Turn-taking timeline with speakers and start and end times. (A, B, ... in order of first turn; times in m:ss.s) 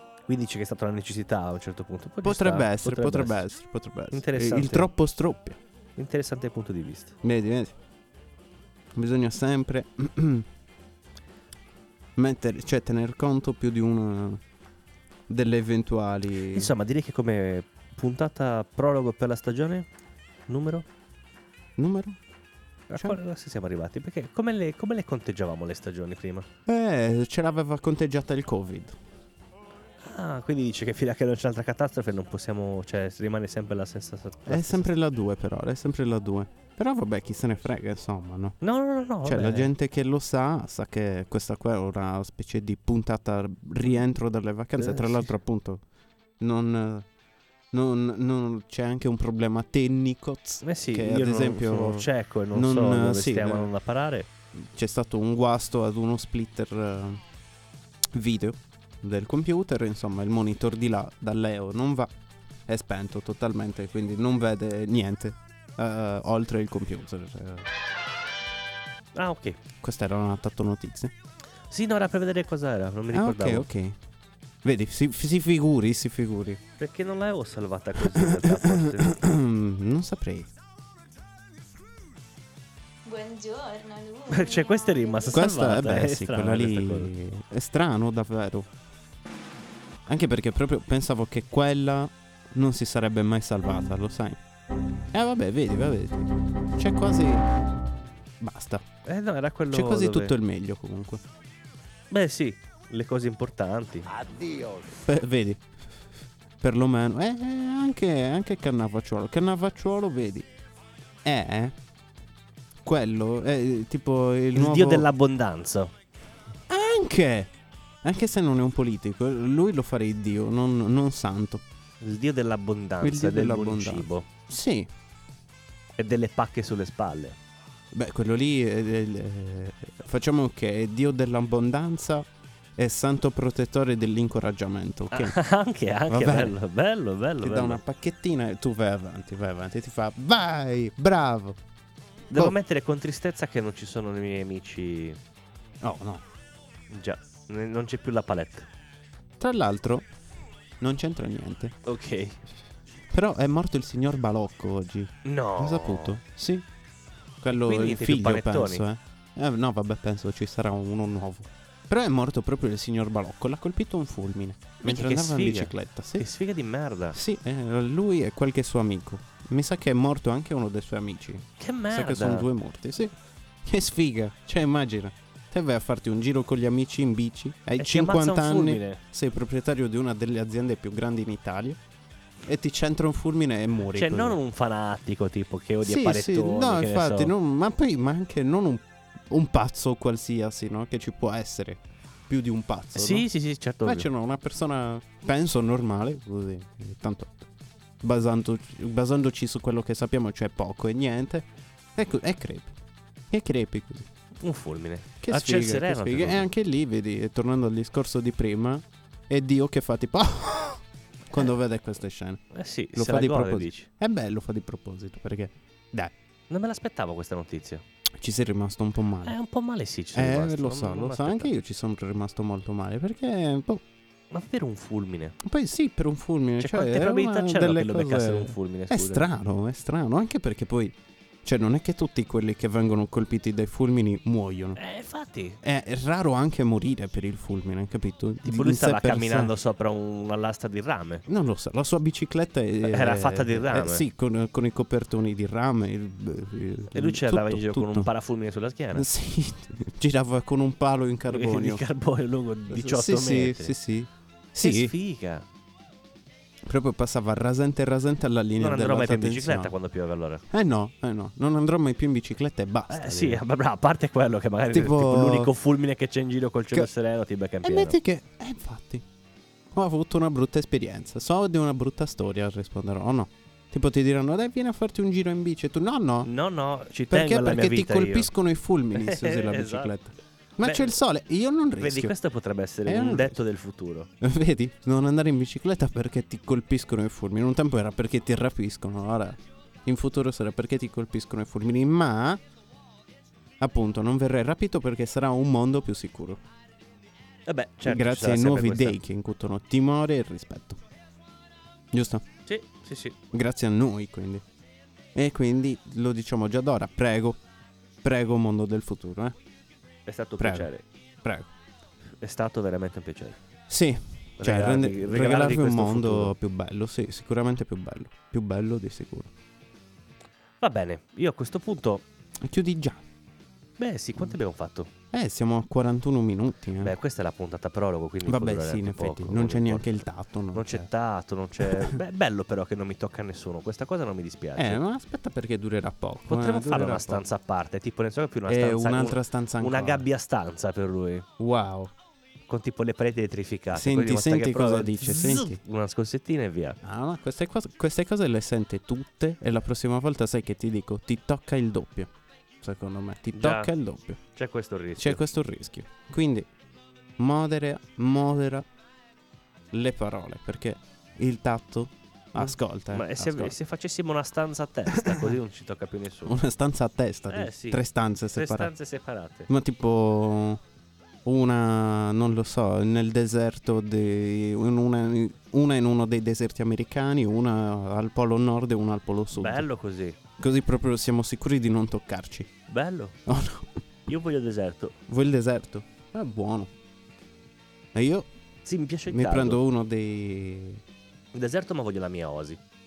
0:00.3-0:03.4 A
0:02.2-0:05.6 B
0:04.1-0:04.9 A
0:06.0-0:07.2 A
0:07.2-0:07.7 B
0:08.9-0:10.5 B
0:12.2-0:14.4 B
0:15.3-0:16.7 B
0:16.5-0:19.9 A
0:20.5-0:20.9 A
0:21.8-0:22.2 B
0:22.9-0:26.5 A
0:26.6-0:29.0 B
0:30.0-0:34.9 A
0:34.5-0:38.6 B
0:38.6-0:39.7 A
0:39.2-0:45.8 B
0:44.8-0:45.3 A
0:46.4-0:47.0 B
0:47.7-0:53.7 B
0:50.6-0:54.3 A
0:54.5-0:57.2 B
0:58.1-1:02.1 B
1:02.7-1:07.7 B
1:09.1-1:09.6 A
1:09.8-1:11.1 B
1:11.7-1:13.6 A
1:13.1-1:14.0 B
1:14.6-1:16.6 B
1:16.8-1:19.2 A
1:18.1-1:20.5 B
1:23.0-1:25.6 C
1:24.3-1:27.1 A
1:25.3-1:28.7 B
1:30.1-1:34.4 B
1:35.1-1:37.5 B
1:38.4-1:38.8 B
1:39.0-1:40.3 A
1:39.7-1:41.2 B
1:42.1-1:44.2 A
1:44.9-1:45.6 B
1:46.6-1:50.5 B
1:51.2-1:51.8 B
1:52.8-1:55.1 B
1:54.5-1:55.9 A
1:56.7-1:57.5 B
1:58.0-2:01.6 B
2:02.0-2:04.2 A
2:03.0-2:04.9 B
2:06.0-2:07.4 A
2:07.9-2:15.4 B
2:15.1-2:17.8 A
2:16.1-2:16.5 B
2:17.4-2:21.6 B
2:22.3-2:22.6 B
2:22.3-2:25.2 A
2:25.8-2:26.2 B
2:26.9-2:28.7 A
2:29.4-2:30.1 B
2:30.8-2:31.7 B
2:31.8-2:32.4 A
2:33.1-2:36.6 B
2:35.2-2:36.2 A
2:37.4-2:46.3 B
2:37.5-2:38.8 A
2:44.8-2:47.2 A
2:47.1-3:01.8 B
2:51.6-2:52.5 A
2:57.8-2:59.0 A
3:02.4-3:04.4 B
3:03.9-3:07.3 A
3:05.8-3:13.3 B
3:12.9-3:14.1 A
3:13.8-3:17.5 B
3:18.0-3:22.7 B
3:23.3-3:24.1 B
3:24.4-3:26.5 A
3:25.2-3:32.4 B
3:32.5-3:33.9 A
3:32.9-3:36.1 B
3:36.5-3:37.8 A
3:38.1-3:39.4 B
3:39.2-3:41.5 A
3:40.1-3:43.8 B
3:44.3-3:45.4 A
3:45.4-3:54.8 B
3:46.6-3:49.3 A
3:54.8-3:55.6 A
3:55.6-3:59.5 B
3:58.4-4:01.2 A
4:01.3-4:08.1 B
4:02.8-4:04.0 A
4:06.9-4:09.1 A
4:08.9-4:11.8 B
4:11.3-4:13.7 A
4:12.7-4:14.9 B
4:14.6-4:15.4 A
4:16.6-4:19.7 B
4:18.6-4:20.4 A
4:20.5-4:23.4 B
4:22.9-4:28.0 A
4:24.7-4:25.5 B
4:27.6-4:29.0 B
4:29.7-4:36.3 B
4:36.2-4:38.3 A
4:37.1-4:42.1 B
4:38.9-4:39.9 A
4:40.6-4:41.0 A
4:41.8-4:44.1 A
4:42.8-4:43.4 B
4:44.2-4:52.4 B
4:53.6-4:56.4 B
4:57.4-4:59.0 A
4:57.8-5:00.8 B
5:01.9-5:02.2 B
5:02.4-5:03.2 A
5:03.3-5:04.4 B
5:05.1-5:07.4 B
5:08.0-5:09.3 B
5:10.1-5:10.8 A
5:10.4-5:10.7 B
5:11.2-5:11.5 B
5:12.2-5:13.4 A
5:13.7-5:19.3 B
5:14.4-5:16.3 A
5:20.6-5:22.0 A
5:22.4-5:23.0 B
5:23.8-5:24.9 A
5:25.1-5:26.9 B
5:26.8-5:29.9 A
5:28.2-5:30.9 B
5:30.5-5:34.8 A
5:31.6-5:31.9 B
5:34.6-5:37.3 B
5:36.3-5:41.3 A
5:38.4-5:40.1 B
5:41.4-5:41.9 B
5:42.5-5:46.8 A
5:43.7-5:45.6 B
5:46.8-5:54.2 B
5:53.3-5:53.7 A
5:54.3-5:55.2 A
5:55.0-5:56.5 B
5:57.2-5:58.7 B
5:59.7-6:03.6 B
6:02.4-6:06.4 A
6:04.9-6:05.3 B
6:06.2-6:08.7 B
6:07.3-6:09.5 A
6:09.5-6:10.6 B
6:11.2-6:19.7 B
6:19.3-6:20.2 A
6:20.4-6:22.5 B
6:22.7-6:23.2 A
6:23.2-6:23.8 B
6:24.1-6:25.0 A
6:25.1-6:26.7 B
6:27.9-6:28.3 B
6:28.6-6:29.6 A
6:29.1-6:30.8 B
6:31.3-6:32.6 A